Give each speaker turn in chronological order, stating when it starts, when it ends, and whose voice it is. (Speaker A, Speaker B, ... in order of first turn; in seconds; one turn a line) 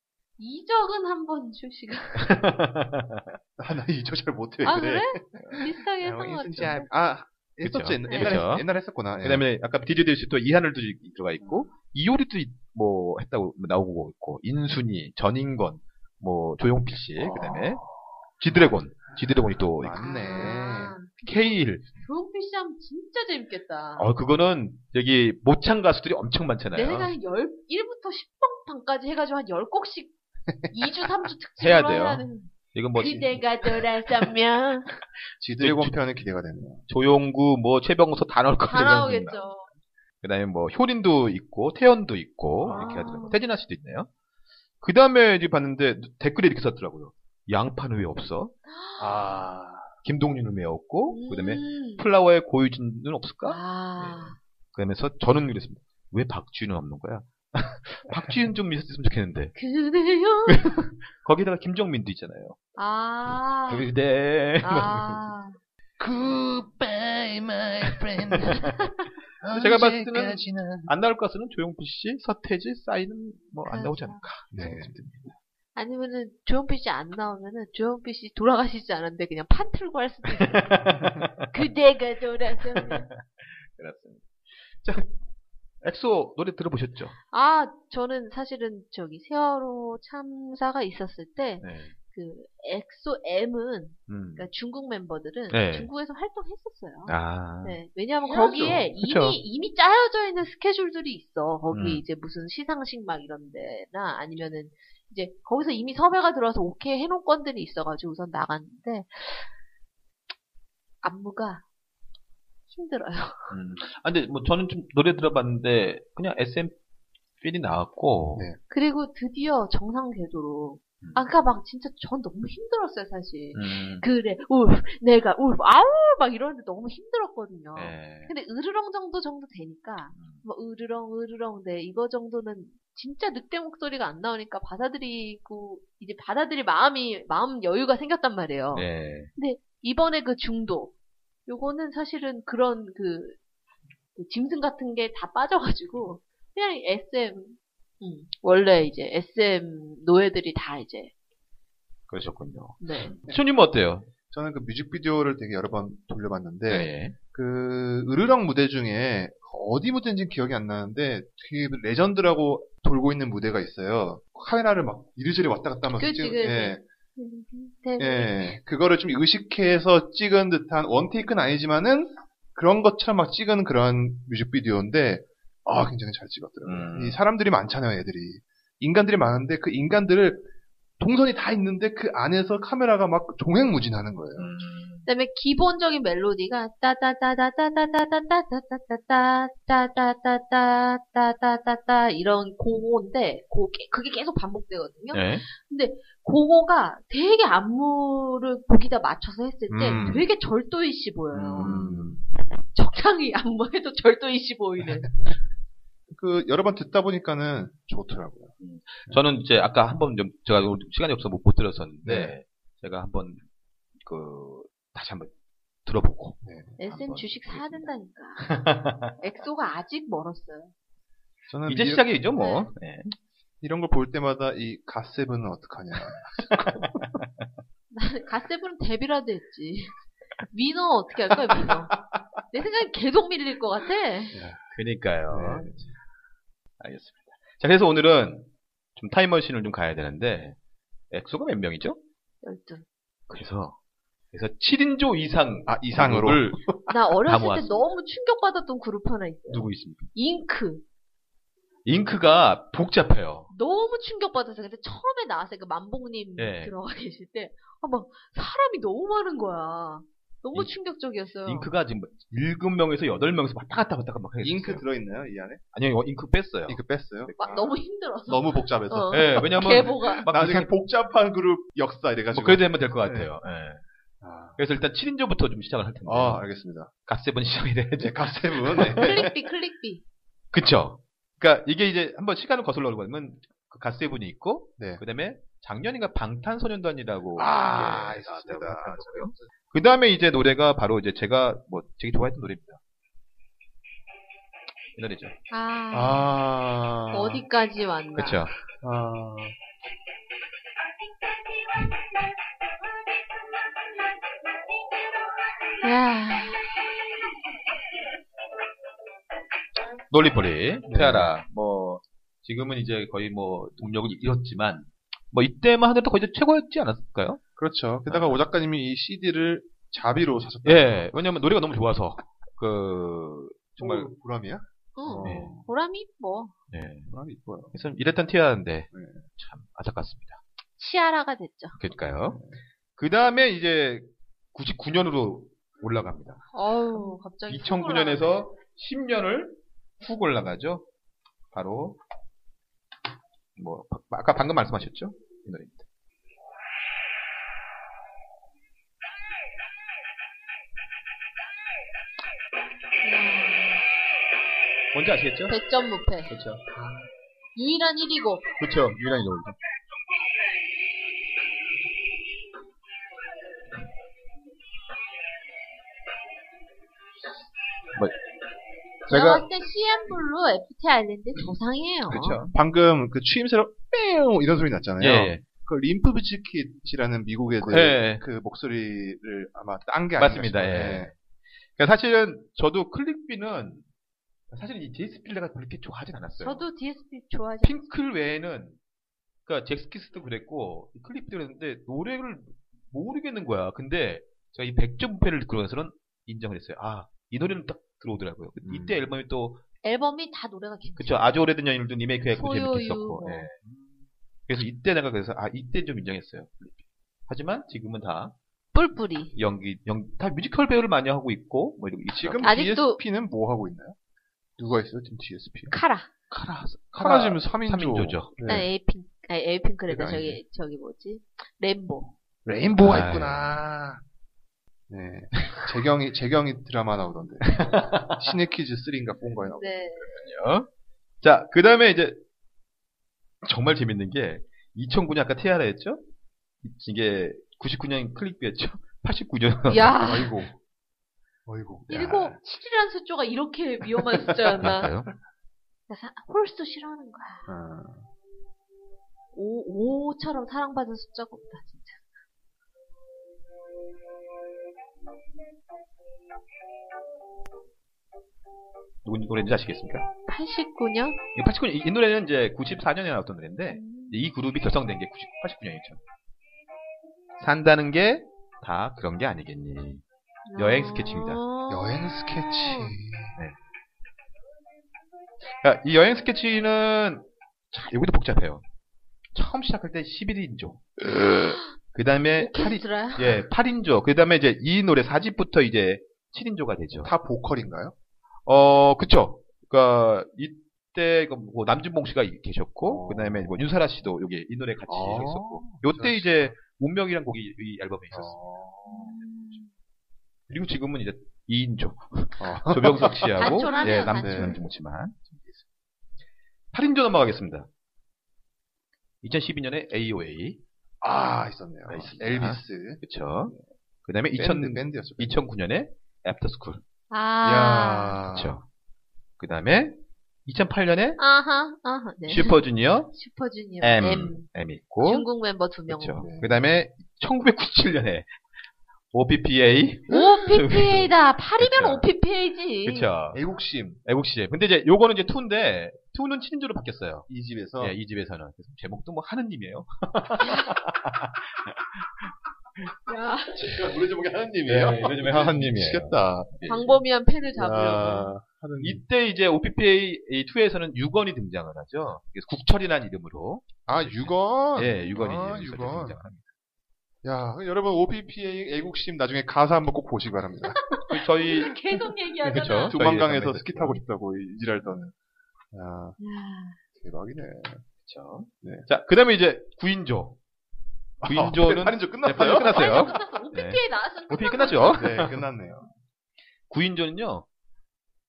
Speaker A: 0.4-2.4
Speaker B: 2.2-3.4
Speaker C: 3.6-9.4
Speaker A: 4.6-6.9
Speaker B: 4.8-5.6
Speaker B: 7.6-8.7
Speaker A: 8.1-8.4
Speaker B: 9.2-17.8
Speaker C: 17.2-17.9
Speaker B: 18.4-20.6
Speaker C: 18.5-20.9
Speaker A: 19.9-24.1
Speaker B: 21.2-21.9
Speaker B: 23.9-27.1
Speaker A: 26.7-30.1
Speaker A: 30.7-34.9
Speaker B: 31.6-33.4
Speaker C: 35.4-36.8
Speaker B: 35.6-35.9
Speaker B: 36.9-39.4
Speaker A: 38.6-39.7
Speaker B: 40.2-44.1
Speaker C: 42.6-43.2
Speaker A: 42.7-43.4
Speaker B: 44.8-48.5
Speaker A: 48.7-49.1
Speaker C: 49.0-49.9
Speaker B: 50.0-59.5
Speaker A: 51.1-52.0
Speaker A: 53.5-54.4
Speaker A: 59.5-60.7
Speaker B: 60.5-62.6
Speaker A: 62.8-63.9
Speaker B: 63.3-65.2
Speaker A: 64.6-65.6
Speaker C: 66.0-68.6
Speaker B: 67.8-68.6
Speaker A: 68.5-68.8
Speaker C: 69.4-70.9
Speaker B: 69.5-75.4
Speaker A: 73.7-74.2
Speaker C: 74.5-74.9
Speaker A: 75.8-80.7
Speaker B: 80.3-81.5
Speaker A: 81.5-83.1
Speaker B: 82.7-85.2
Speaker B: 85.8-87.2
Speaker A: 87.3-109.5
Speaker B: 91.6-92.0
Speaker B: 94.1-94.5
Speaker B: 95.5-95.9
Speaker B: 97.0-99.4
Speaker C: 98.3-98.8
Speaker B: 101.7-102.0
Speaker A: 111.0-111.6
Speaker A: 112.7-113.5
Speaker B: 113.5-116.8
Speaker B: 117.4-118.5
Speaker A: 118.7-140.9
Speaker B: 123.5-124.1
Speaker B: 127.7-128.3
Speaker B: 130.1-130.4
Speaker B: 138.7-139.3
Speaker A: 141.5-143.4
Speaker A: 144.2-151.1
Speaker B: 152.1-154.1
Speaker A: 152.8-153.2
Speaker C: 154.3-166.8
Speaker B: 156.7-157.1
Speaker A: 166.0-168.6
Speaker C: 168.0-180.5
Speaker B: 176.6-177.2
Speaker C: 181.0-184.5
Speaker B: 184.3-185.1
Speaker A: 185.0-201.9
Speaker B: 195.1-195.4
Speaker C: 199.7-200.3
Speaker B: 199.9-200.2
Speaker B: 201.3-202.2
Speaker C: 201.6-202.2
Speaker A: 202.7-205.1
Speaker C: 206.1-208.5
Speaker B: 208.6-213.4
Speaker C: 212.0-212.3
Speaker B: 214.0-215.3
Speaker B: 215.8-219.2
Speaker C: 216.4-216.8
Speaker A: 216.8-218.6
Speaker A: 219.2-220.7
Speaker C: 221.5-222.1
Speaker B: 221.7-223.2
Speaker A: 222.4-222.7
Speaker C: 223.6-226.9
Speaker B: 226.2-227.4
Speaker A: 227.9-229.9
Speaker A: 230.5-231.9
Speaker A: 232.5-234.4
Speaker C: 234.3-234.6
Speaker B: 234.7-235.8
Speaker C: 235.3-235.9
Speaker B: 236.8-240.6
Speaker B: 241.1-242.0
Speaker A: 242.4-242.8
Speaker B: 243.3-243.8
Speaker B: 244.3-247.8
Speaker C: 245.7-246.6
Speaker A: 246.9-250.8
Speaker B: 249.5-250.1
Speaker B: 251.8-253.5
Speaker A: 253.5-261.7
Speaker B: 256.4-256.7
Speaker B: 261.4-264.8
Speaker C: 264.4-265.6
Speaker B: 265.7-267.6
Speaker C: 266.7-267.6
Speaker A: 267.4-270.2
Speaker C: 268.2-273.3
Speaker B: 269.1-270.7
Speaker B: 272.3-273.8
Speaker C: 274.2-274.6
Speaker B: 274.6-276.4
Speaker C: 276.0-276.9
Speaker B: 277.1-279.3
Speaker C: 278.0-279.2
Speaker A: 279.0-280.0
Speaker B: 280.5-292.8
Speaker C: 287.3-289.4
Speaker B: 294.9-295.4
Speaker A: 295.5-296.3
Speaker C: 295.9-297.4
Speaker A: 297.1-298.4
Speaker B: 298.1-298.5
Speaker C: 298.8-299.6
Speaker A: 305.8-306.6
Speaker B: 310.1-317.4
Speaker C: 310.9-311.3
Speaker C: 317.6-321.1
Speaker B: 318.1-318.4
Speaker B: 320.6-324.1
Speaker C: 323.8-325.7
Speaker A: 324.9-326.5
Speaker B: 325.2-325.6
Speaker B: 326.7-327.1
Speaker C: 327.1-327.7
Speaker B: 327.7-330.4
Speaker C: 328.9-329.2
Speaker A: 330.8-331.8
Speaker B: 331.8-332.4
Speaker C: 332.3-332.5
Speaker B: 333.0-336.4
Speaker A: 336.5-338.4
Speaker B: 337.5-340.9
Speaker B: 341.5-342.0
Speaker B: 343.6-345.8
Speaker A: 353.0-353.9
Speaker B: 354.9-355.6
Speaker A: 355.5-356.3
Speaker B: 356.3-357.0
Speaker A: 357.5-358.5
Speaker B: 358.6-359.6
Speaker B: 369.1-369.4
Speaker A: 369.1-372.4
Speaker B: 372.1-372.5
Speaker C: 372.5-381.1
Speaker B: 375.0-375.4
Speaker B: 377.6-378.2
Speaker B: 380.2-381.1
Speaker B: 381.8-383.9
Speaker B: 384.5-386.6
Speaker A: 386.4-387.9
Speaker B: 387.6-388.8
Speaker B: 389.4-399.6
Speaker C: 398.6-399.1
Speaker A: 399.8-401.3
Speaker B: 401.0-403.7
Speaker A: 402.3-403.5
Speaker B: 404.5-408.4
Speaker A: 408.7-409.3
Speaker B: 409.3-412.5
Speaker C: 412.1-413.9
Speaker A: 412.4-413.0
Speaker C: 414.6-415.8
Speaker A: 415.7-416.1
Speaker B: 416.3-418.4
Speaker C: 416.9-418.7
Speaker A: 418.4-422.1
Speaker C: 419.9-420.3
Speaker C: 422.4-424.0
Speaker B: 422.8-423.6
Speaker C: 424.9-429.8
Speaker B: 427.4-428.3
Speaker A: 429.5-430.1
Speaker B: 430.0-430.7
Speaker B: 431.2-432.2
Speaker B: 433.4-436.0
Speaker B: 436.6-440.0
Speaker A: 439.7-440.4
Speaker C: 439.9-440.6
Speaker C: 441.4-442.4
Speaker A: 441.9-444.9
Speaker C: 444.4-444.7
Speaker B: 444.6-445.1
Speaker A: 445.9-447.5
Speaker C: 447.4-448.1
Speaker A: 449.3-452.0
Speaker B: 459.0-460.1
Speaker A: 460.3-461.2
Speaker B: 461.3-466.0
Speaker A: 463.7-464.2
Speaker B: 467.4-470.0
Speaker A: 470.4-472.9
Speaker B: 470.6-471.4
Speaker C: 471.7-473.4
Speaker B: 475.5-478.6
Speaker B: 479.3-487.1
Speaker A: 482.4-483.4
Speaker C: 487.0-487.9
Speaker B: 488.4-498.4
Speaker C: 492.8-493.6
Speaker C: 494.9-496.6
Speaker C: 498.1-499.1
Speaker A: 498.9-499.7
Speaker B: 500.5-505.6
Speaker C: 502.4-504.6
Speaker A: 503.3-504.6
Speaker B: 506.7-507.7
Speaker B: 509.2-510.6
Speaker C: 511.0-513.6
Speaker B: 511.9-516.8
Speaker C: 514.3-515.4
Speaker A: 517.1-518.2
Speaker C: 517.4-518.6
Speaker B: 518.3-518.6
Speaker B: 519.4-521.2
Speaker A: 521.2-524.5
Speaker B: 522.3-523.1
Speaker B: 523.8-525.3
Speaker A: 525.0-526.2
Speaker B: 525.9-528.3
Speaker C: 526.2-526.6
Speaker B: 529.1-532.0
Speaker A: 530.1-533.1
Speaker B: 532.8-533.4
Speaker C: 533.3-534.0
Speaker B: 534.0-537.3
Speaker C: 537.3-538.0
Speaker B: 537.8-542.3
Speaker A: 540.4-540.7
Speaker A: 543.1-543.6
Speaker B: 543.6-544.0
Speaker C: 543.6-546.5
Speaker B: 544.6-547.0
Speaker A: 546.7-548.3
Speaker C: 547.5-549.0
Speaker B: 548.8-556.5
Speaker C: 553.9-556.2
Speaker C: 557.2-561.6
Speaker A: 560.8-562.9
Speaker B: 561.1-561.8
Speaker B: 562.5-564.0
Speaker C: 562.5-565.1
Speaker C: 565.7-566.2
Speaker A: 566.2-566.8
Speaker C: 566.9-567.8
Speaker B: 568.0-570.4
Speaker C: 568.6-568.9
Speaker C: 571.2-573.1
Speaker B: 571.2-575.4
Speaker A: 572.4-575.2
Speaker C: 574.9-575.9
Speaker B: 576.7-577.5